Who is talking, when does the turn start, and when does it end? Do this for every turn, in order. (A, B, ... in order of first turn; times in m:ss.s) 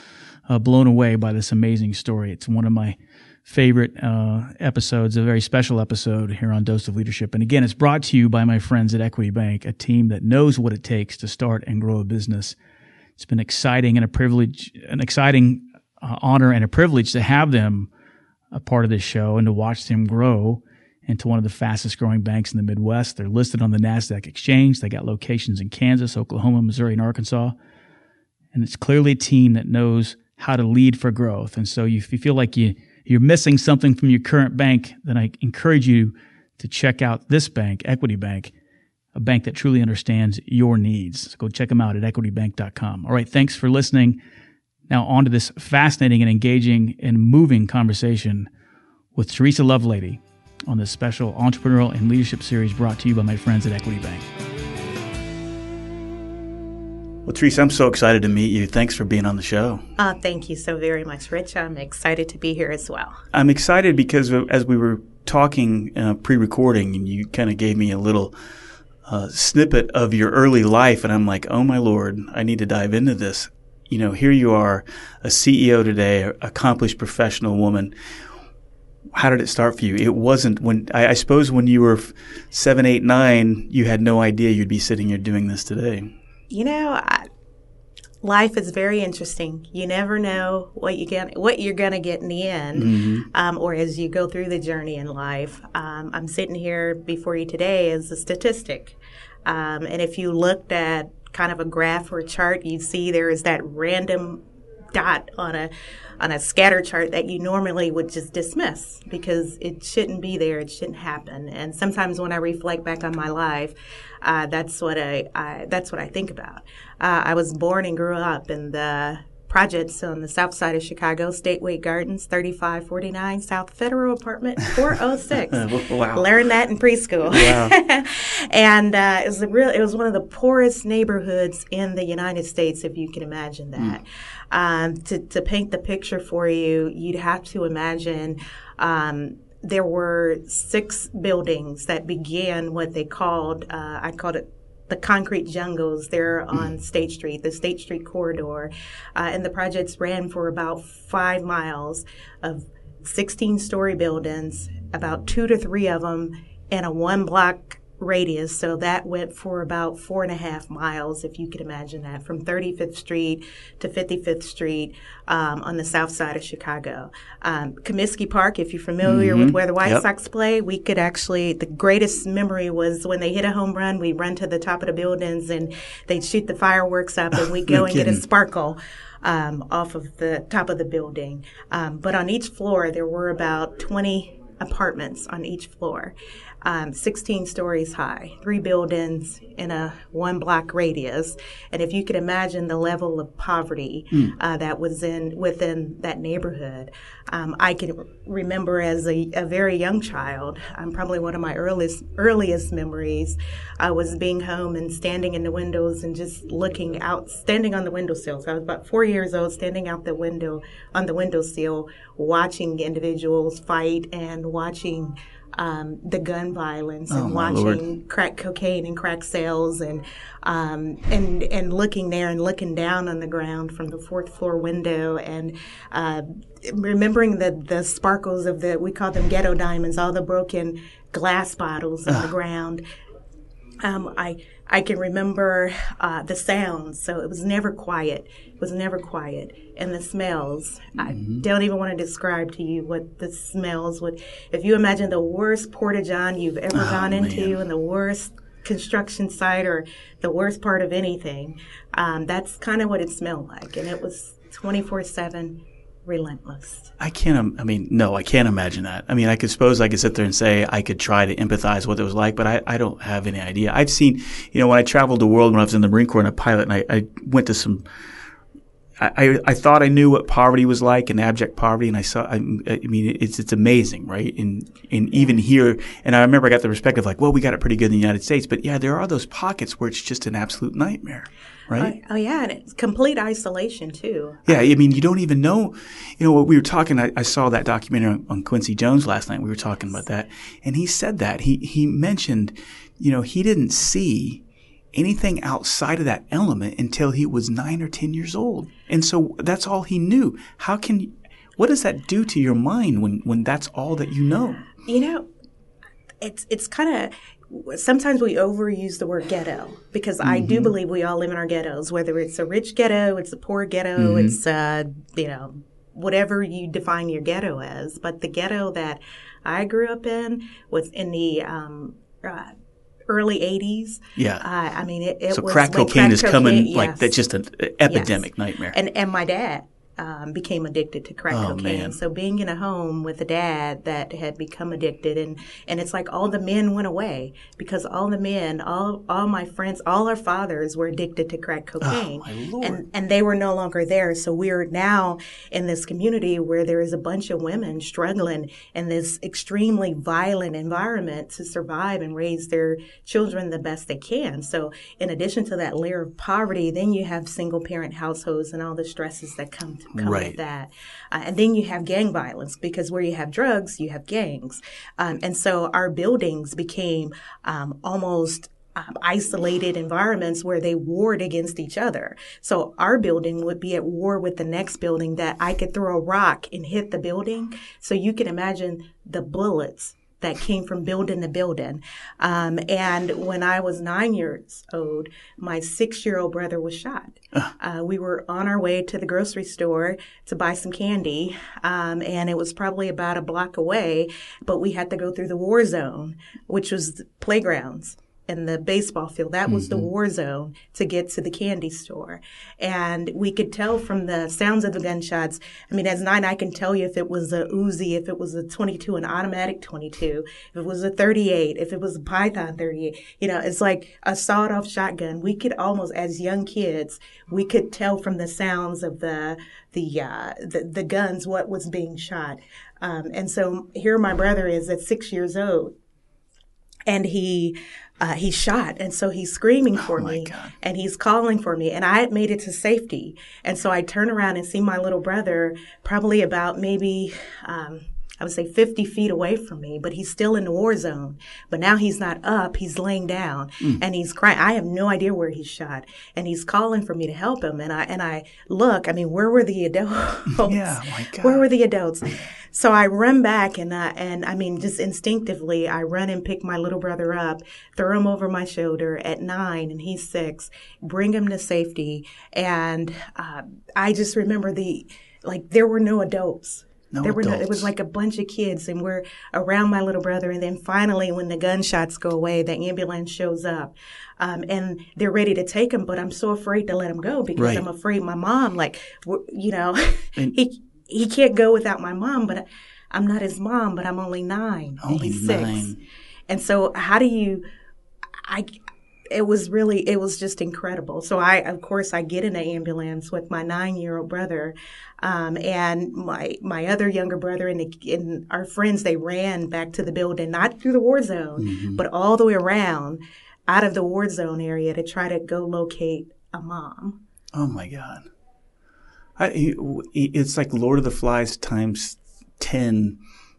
0:00.5-0:12.6 A
0:13.2-0:17.9 A
0:18.5-0:27.6 A
0:28.5-0:38.5 A
0:39.1-0:44.2 A
0:44.9-0:48.5 A
0:49.1-0:54.3 A
0:57.2-0:59.9 A
1:00.0-1:03.2 B
1:03.3-1:08.3 A
1:09.0-1:17.9 A
1:19.1-1:26.1 A
1:26.5-1:27.3 B
1:28.2-1:44.4 B
1:32.7-1:33.3 A
1:44.9-3:52.8 B
2:05.5-2:06.3 A
2:07.3-2:07.7 A
2:49.0-2:50.0 A
2:57.3-2:58.2 A
3:37.1-3:37.8 A
3:53.8-4:16.9 B
4:01.0-4:01.4 A
4:06.7-4:07.6 A
4:17.0-4:27.8 A
4:29.0-4:41.9 A
4:41.8-4:45.0 B
4:44.4-4:54.4 A
4:54.9-5:04.6 A
5:04.8-5:05.3 B
5:06.2-5:22.5 B
5:10.2-5:10.7 A
5:14.0-5:14.4 A
5:23.1-5:27.1 B
5:24.2-5:24.4 A
5:25.3-5:28.8 A
5:27.8-7:05.7 B
5:31.3-5:32.0 A
5:41.8-5:42.8 A
6:00.0-6:00.4 A
6:39.5-6:39.9 A
7:06.9-8:05.7 B
7:09.8-7:10.5 A
7:30.3-7:31.4 A
7:46.9-7:47.7 A
7:57.4-7:57.6 A
8:04.8-8:05.8 A
8:06.3-8:07.4 B
8:08.2-8:08.6 B
8:09.1-8:27.0 B
8:21.4-8:21.8 A
8:27.3-8:28.0 A
8:29.2-8:33.0 A